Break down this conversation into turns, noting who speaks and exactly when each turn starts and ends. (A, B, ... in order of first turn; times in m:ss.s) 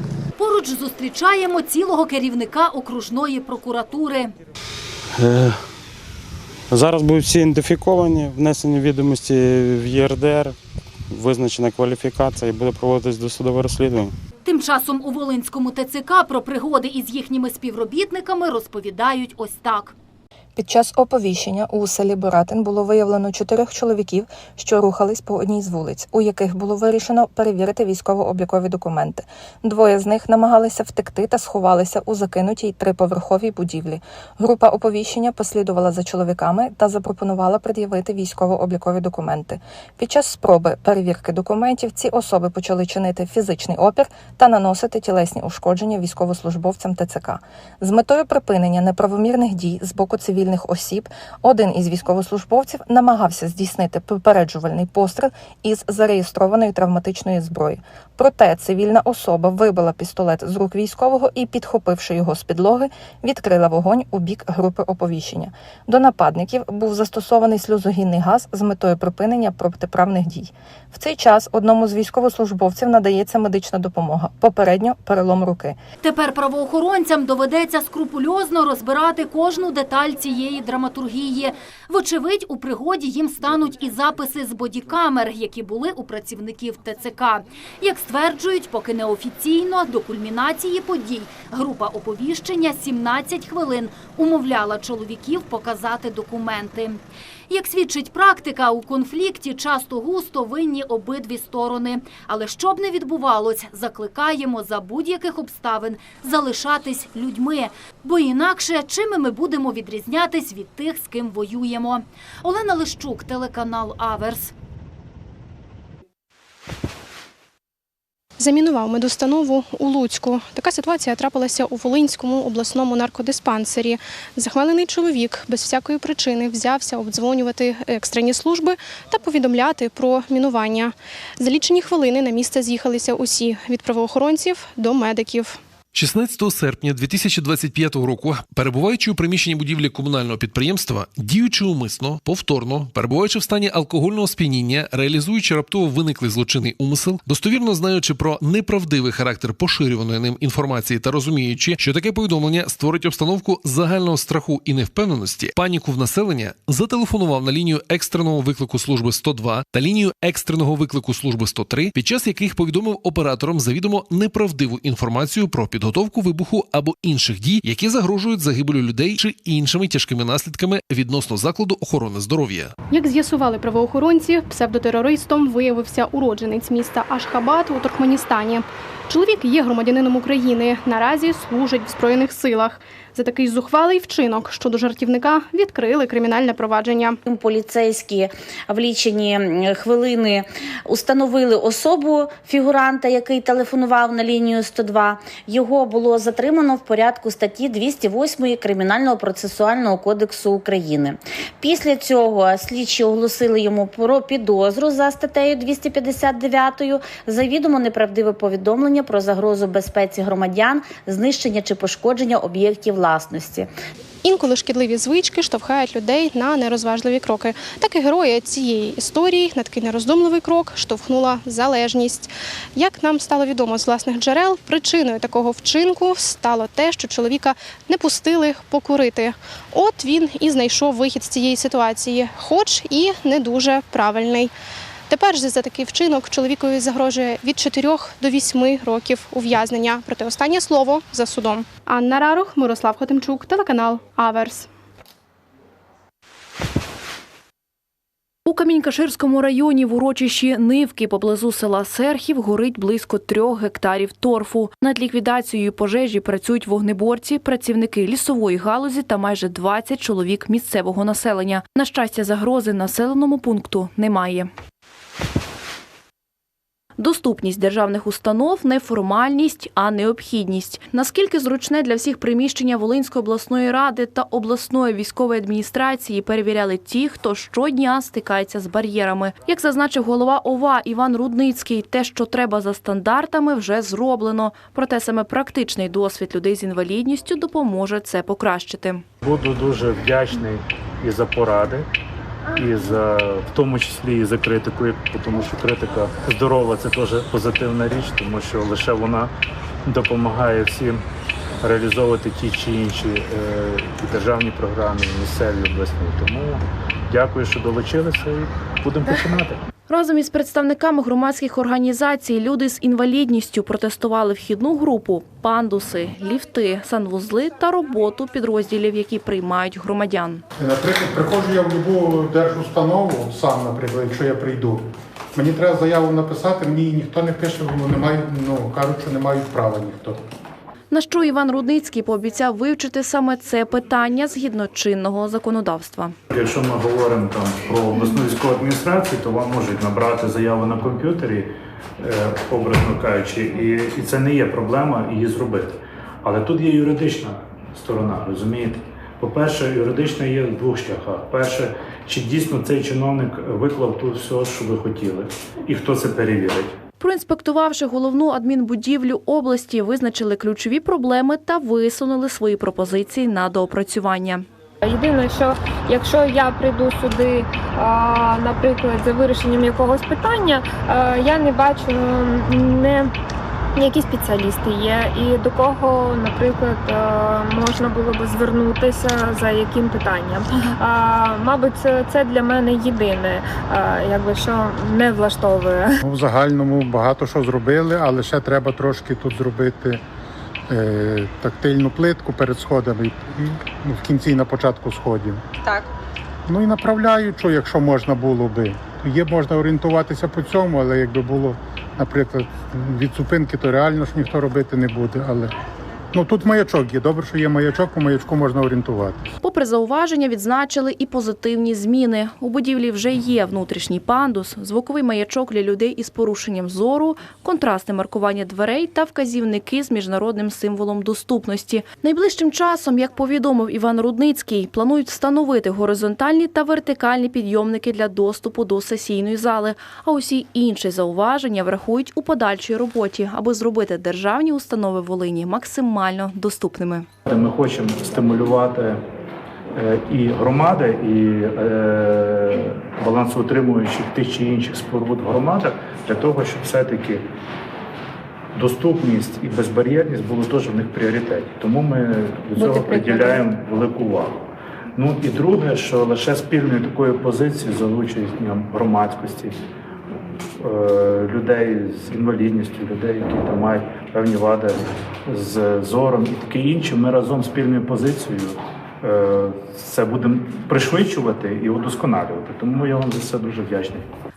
0:00.4-0:04.3 A
0:05.2-0:05.6 B
0:06.7-0:10.6 B
0:11.1-0:14.1 B
0:14.4-0:19.9 A
0:20.6-1:15.8 C
1:16.0-1:54.5 A
1:58.4-2:15.6 D
2:15.9-2:52.7 E
2:52.9-3:07.2 D
3:07.2-3:33.7 F
3:34.2-3:54.5 D
3:55.1-4:04.7 D
4:08.4-4:24.5 G
4:27.0-4:49.0 G
4:49.2-4:51.9 H
4:52.5-4:59.3 H
4:59.8-5:01.0 H
5:01.6-5:09.6 H
5:09.9-5:20.4 G
5:20.6-5:30.2 I
5:30.9-5:36.2 G
5:36.3-5:56.8 H
5:57.0-6:04.4 G
6:04.8-6:13.1 J
6:13.8-6:26.0 J
6:26.0-6:30.0 I
6:30.7-6:35.4 I
6:36.5-6:45.5 I
6:46.1-6:49.3 I
6:49.4-7:17.1 G
7:17.2-7:19.0 H
7:19.7-7:27.3 H
7:28.5-7:34.4 H
7:34.9-7:39.6 H
7:40.6-7:54.0 H